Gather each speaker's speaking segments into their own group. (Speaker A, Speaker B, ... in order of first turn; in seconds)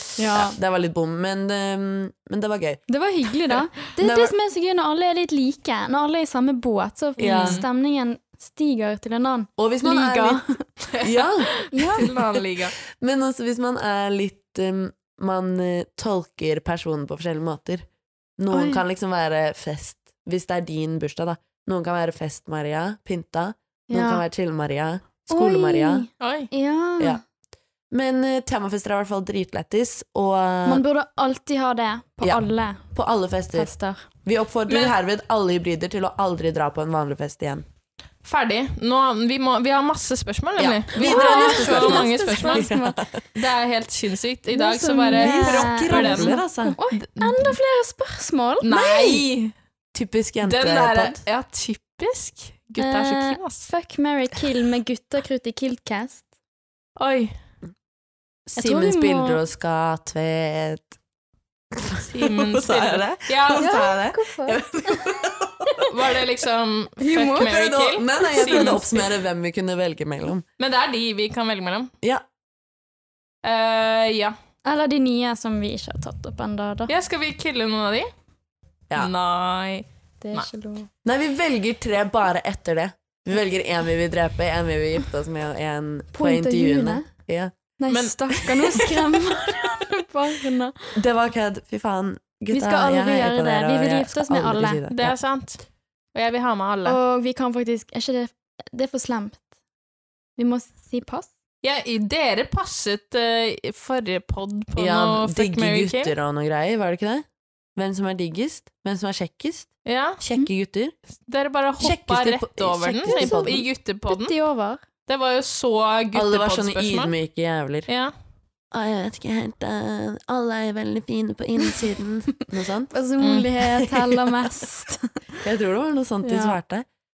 Speaker A: 0.2-0.6, 2.9-10.7, 11.7-12.1, 18.5-18.8, 23.9-24.2, 25.3-27.2, 30.6-32.9, 33.5-34.0, 41.0-43.0, 44.5-49.2, 52.8-56.3, 58.6-59.4, 63.5-65.2, 67.0-67.5, 68.3-68.8, 74.7-76.9, 80.2-80.9, 86.1-87.1, 87.8-90.9, 92.5-94.8, 96.9-99.5, 100.4-101.3, 113.1-114.8, 122.9-125.1, 126.2-126.6
Speaker B: 0.3-2.8, 4.0-4.3, 7.2-7.6, 9.6-10.4, 11.0-11.5, 12.9-17.9, 18.4-26.1, 27.9-30.8, 32.9-33.7, 34.2-37.6, 40.6-43.2, 45.1-46.8, 49.9-51.2, 58.5-60.9, 61.8-65.9, 67.4-70.5, 81.0-87.5, 91.0-95.2, 104.8-110.9, 111.8-113.7, 116.1-117.9, 118.7-122.9, 123.6-124.1, 125.4-126.9
Speaker C: 7.2-7.6, 10.8-12.8, 26.2-26.5, 34.7-35.0, 38.2-42.7, 43.4-46.4, 46.9-47.6, 48.6-49.5, 50.4-53.7, 57.0-57.3, 62.0-63.7, 65.9-69.1, 70.6-71.9, 73.4-74.3, 76.9-78.1, 79.0-80.5, 87.9-89.2, 94.9-95.6, 96.1-97.0, 101.6-106.1, 109.8-110.2, 111.3-114.3, 115.1-117.1, 117.9-118.1, 123.2-123.5